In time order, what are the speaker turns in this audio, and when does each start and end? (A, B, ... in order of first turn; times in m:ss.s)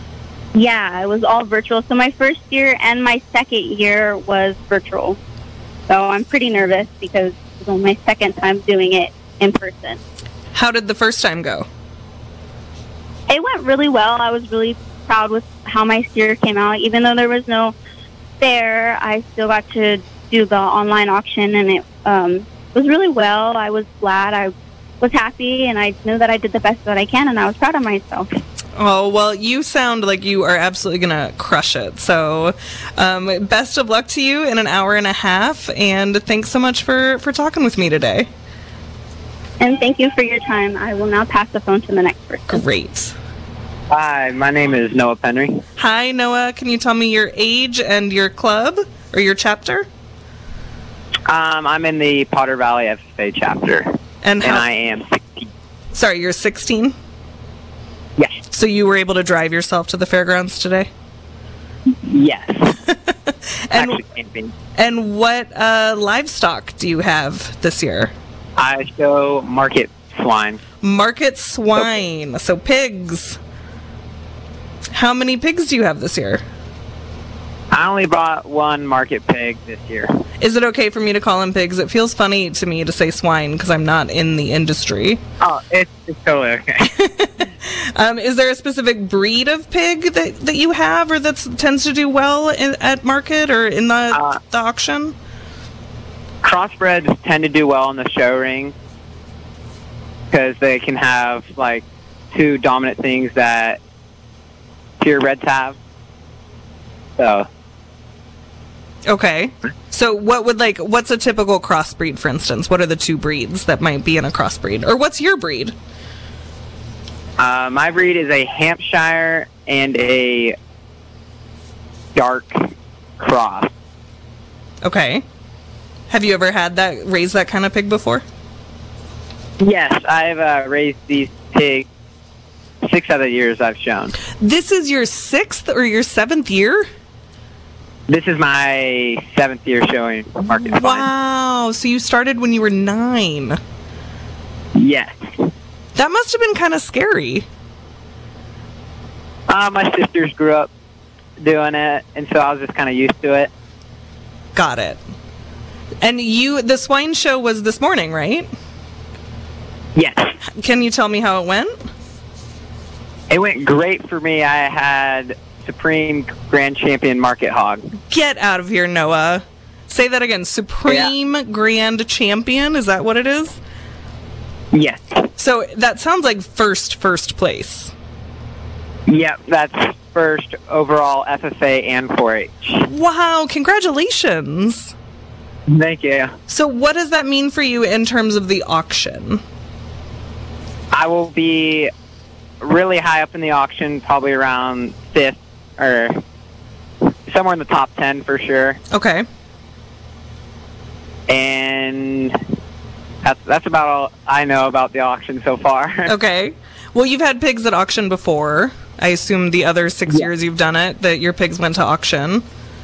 0:00.5-0:05.2 A
0:05.9-0:10.0 A
0:10.5-0:11.7 B
0:13.3-0:17.8 A
0:18.4-0:28.3 A
0:28.8-0:38.3 B
0:39.6-0:42.6 A
0:42.5-0:43.2 B
0:43.9-0:45.6 C
0:45.8-0:49.9 B
0:51.3-0:55.5 C
0:54.2-0:54.6 B
0:55.9-0:57.0 B
0:58.5-1:00.9 B
1:02.0-1:02.8 C
1:02.9-1:04.0 B
1:03.8-1:04.5 C
1:04.8-1:08.1 B
1:08.6-1:10.6 C
1:10.8-1:13.4 B
1:14.9-1:16.4 B
1:17.7-1:20.1 C
1:20.4-1:25.2 B
1:25.4-1:26.9 C
1:26.9-1:35.2 B
1:34.1-1:34.4 C
1:36.4-1:38.7 C
1:40.3-1:43.8 C
1:45.0-1:45.8 C
1:47.2-1:47.5 C
1:49.1-1:55.8 B
1:57.4-2:00.6 C
2:02.2-2:02.6 C
2:03.2-2:03.7 C
2:04.8-2:05.2 B
2:06.1-2:08.2 B
2:09.6-2:11.9 C
2:12.8-2:14.1 C
2:14.4-2:16.9 B
2:18.1-2:21.0 C
2:20.6-2:23.6 B
2:24.8-2:25.4 C
2:26.0-2:27.5 B
2:29.5-2:30.7 C
2:31.4-2:33.5 C
2:34.6-2:35.0 B
2:36.0-2:38.5 B
2:40.0-2:40.3 C
2:40.6-2:41.8 B
2:43.3-2:47.9 C
2:48.1-2:53.6 B
2:54.7-2:55.3 C
2:55.4-2:57.9 B
2:59.1-3:02.8 C
3:02.8-3:04.9 B
3:05.7-3:06.4 C
3:06.5-3:09.4 B
3:10.9-3:11.9 C
3:12.6-3:16.2 C
3:17.3-3:18.8 C
3:18.9-3:19.3 B
3:21.3-3:22.3 C
3:23.2-3:26.1 C
3:26.1-3:32.4 B